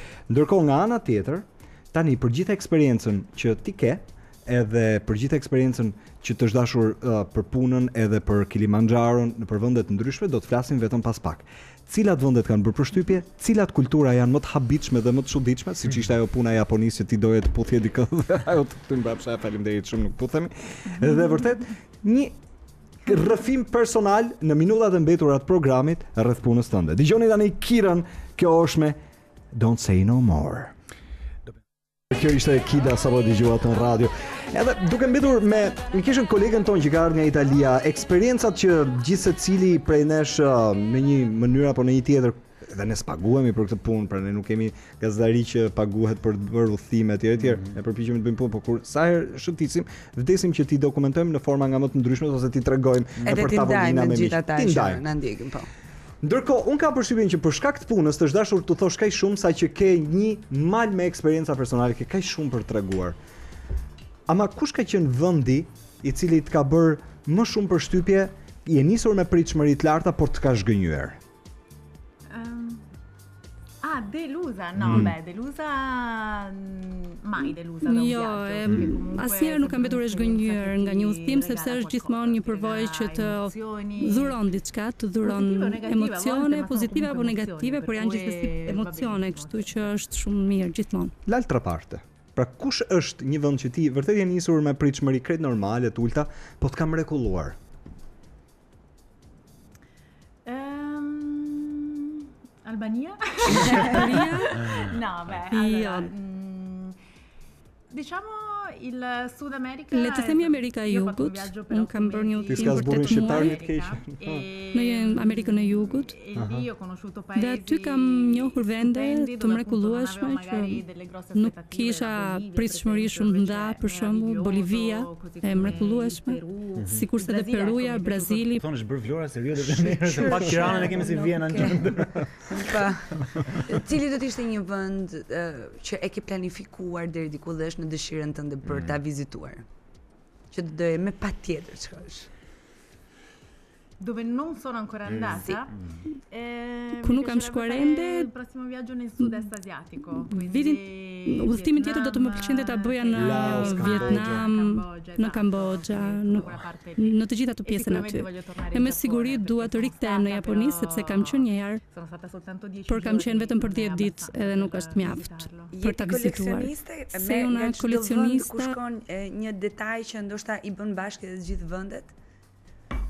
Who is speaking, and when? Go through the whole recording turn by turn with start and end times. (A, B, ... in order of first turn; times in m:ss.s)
0:00.3-0:22.3 A
0:23.0-0:29.0 A
0:29.5-0:30.7 A
0:32.1-0:55.0 A
0:53.2-0:53.4 B
0:53.2-0:55.7 C
0:56.2-1:03.2 A
1:04.3-1:11.2 A
1:12.3-1:12.8 D
1:13.8-1:24.4 D
1:14.8-1:15.1 A
1:17.8-1:31.1 E
1:25.2-1:29.9 D
1:31.2-1:37.6 A
1:40.4-1:47.0 D
1:43.5-1:46.1 E
1:44.6-1:45.0 B
1:47.9-2:08.5 D
1:49.9-1:53.6 E
1:52.5-1:54.4 A
1:54.7-1:56.1 E
1:56.3-1:56.6 A
1:57.3-2:00.8 E
2:01.3-2:08.6 E
2:05.6-2:05.9 B
2:06.8-2:07.0 A
2:08.6-2:13.6 B
2:09.9-2:10.9 A
2:10.0-2:19.6 C
2:20.5-2:22.3 C
2:24.0-2:25.7 D
2:26.3-2:45.7 D
2:27.0-2:28.3 E
2:30.2-2:41.8 E
2:33.1-2:34.5 A
2:42.9-2:48.8 E
2:45.7-2:52.1 C